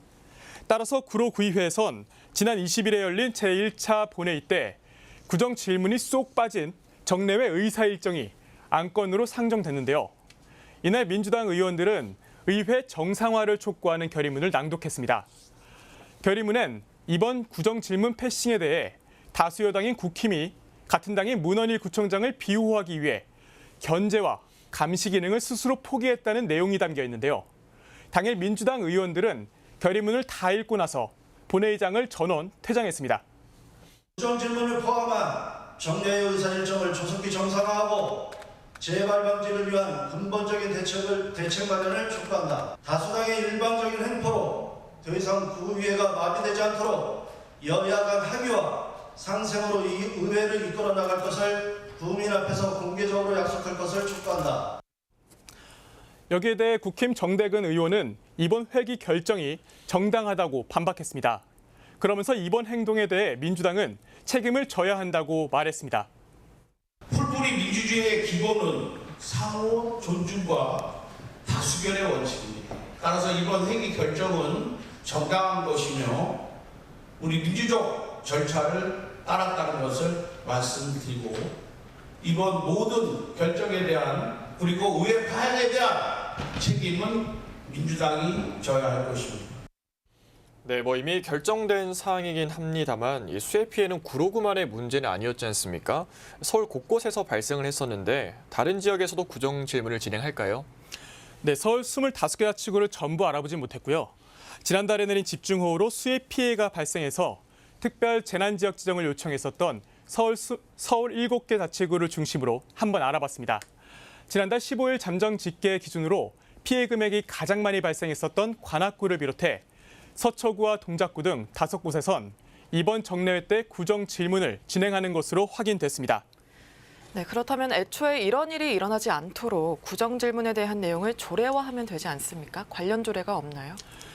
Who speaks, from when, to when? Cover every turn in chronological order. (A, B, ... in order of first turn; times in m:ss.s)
0:00.7-0:04.8 A
0:05.3-0:10.1 A
0:10.8-0:15.3 A
0:16.2-0:23.2 A
0:23.8-0:27.4 A
0:28.1-0:33.2 A
0:34.2-0:54.8 B
0:56.3-1:01.4 A
1:02.0-1:06.1 A
1:07.1-1:16.4 C
1:17.2-1:21.5 C
1:22.2-1:29.6 C
1:30.6-1:40.7 D
1:41.4-1:44.1 A
1:44.6-1:53.6 A
1:54.3-1:59.6 A
2:00.2-2:06.2 A
2:07.1-2:13.8 E